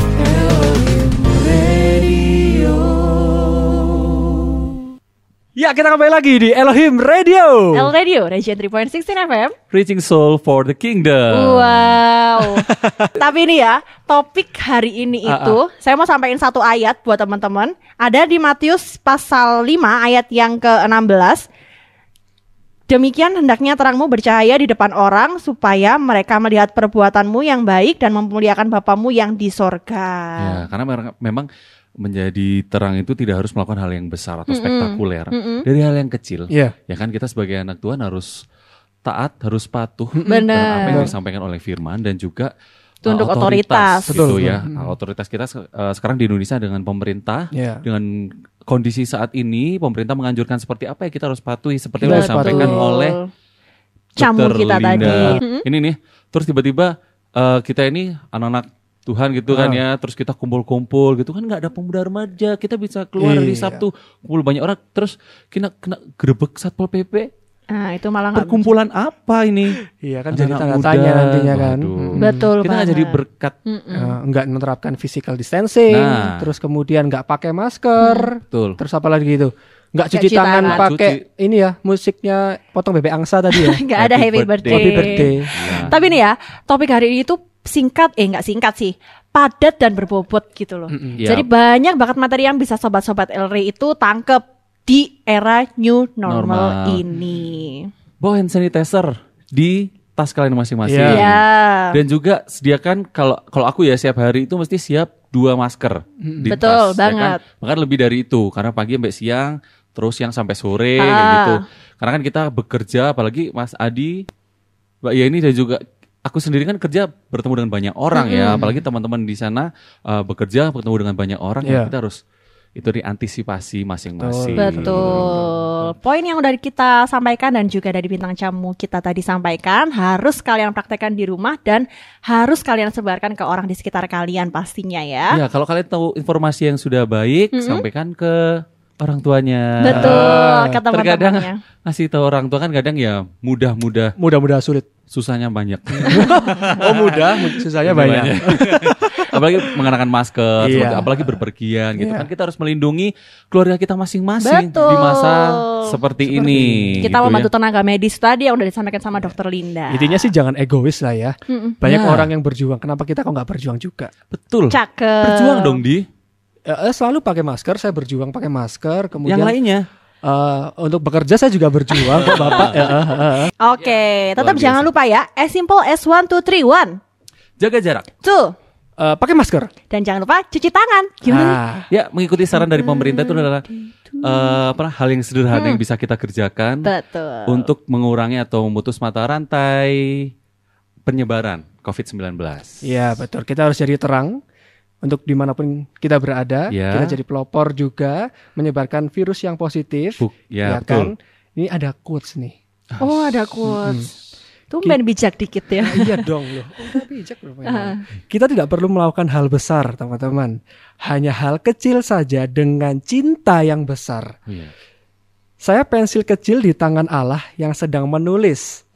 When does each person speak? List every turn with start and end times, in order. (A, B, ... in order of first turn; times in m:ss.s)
0:02.2-0:02.7 A
0:05.5-0:07.9 A
0:07.7-0:09.6 B
0:09.7-0:12.0 C
0:11.3-0:21.4 B
0:12.4-0:13.1 A
0:15.2-0:15.6 A
0:22.9-0:30.6 B
0:30.4-0:31.5 C
0:32.0-0:38.4 C
0:34.5-0:35.6 B
0:36.5-0:36.8 A
0:39.0-0:42.5 C
0:40.1-0:41.1 A
0:40.3-0:41.1 B
0:43.0-0:44.3 B
0:43.0-0:53.2 C
0:44.1-0:44.9 A
0:47.5-0:47.8 A
0:52.0-0:52.8 A
0:52.0-0:53.3 B
0:54.2-0:55.6 B
0:54.2-1:07.3 C
0:55.0-0:55.4 A
0:59.5-0:59.8 A
1:03.2-1:03.8 A
1:07.7-1:08.7 B
1:08.3-1:09.8 C
1:09.8-1:12.5 A
1:10.3-1:13.6 C
1:12.2-1:14.2 B
1:13.9-1:23.8 A
1:15.9-1:16.5 C
1:18.0-1:18.3 B
1:18.4-1:18.8 C
1:20.1-1:20.9 B
1:20.6-1:21.2 C
1:23.5-1:37.9 B
1:23.9-1:26.0 C
1:24.6-1:26.0 A
1:30.9-1:31.2 A
1:31.2-1:31.5 C
1:36.3-1:37.0 C
1:38.2-1:54.2 C
1:40.8-1:41.3 A
1:41.0-1:42.0 B
1:46.2-1:46.5 A
1:46.5-1:47.4 B
1:51.0-1:51.6 B
1:55.0-2:02.2 C
1:58.1-1:58.6 B
1:58.5-1:58.8 A
2:01.6-2:01.9 A
2:02.8-2:05.5 C
2:04.2-2:05.6 A
2:04.6-2:15.4 B
2:15.3-2:24.1 C
2:17.5-2:17.8 B
2:19.8-2:21.6 B
2:19.9-2:20.8 A
2:24.2-2:25.0 A
2:25.0-2:37.5 C
2:25.9-2:29.9 A
2:30.6-2:31.4 A
2:32.0-2:32.3 A
2:34.4-2:36.0 B
2:36.2-2:37.2 A
2:37.0-2:40.3 B
2:39.9-2:44.1 A
2:41.5-2:41.8 B
2:41.8-2:42.3 C
2:44.3-2:46.0 C
2:44.7-2:45.8 B
2:46.6-2:49.6 A
2:49.3-2:49.9 C
2:50.2-2:53.5 A
2:52.1-2:52.9 C
2:53.6-2:57.0 B
2:54.4-2:54.9 C
2:57.6-2:58.1 C
2:58.2-2:58.6 B
2:59.0-2:59.7 A
2:59.9-3:01.6 B
3:01.2-3:01.9 A
3:01.9-3:03.6 C
3:02.5-3:04.6 B
3:04.2-3:06.9 C
3:05.5-3:05.8 B
3:06.8-3:07.7 B
3:07.5-3:10.3 C
3:11.0-3:13.1 C
3:12.8-3:14.4 A
3:15.0-3:23.0 A
3:16.7-3:17.2 C
3:20.2-3:21.1 C
3:23.0-3:24.1 B
3:23.6-3:24.1 A
3:24.7-3:26.3 B
3:25.8-3:34.3 A
3:27.6-3:28.0 B
3:34.5-3:34.7 C
3:35.6-3:38.8 A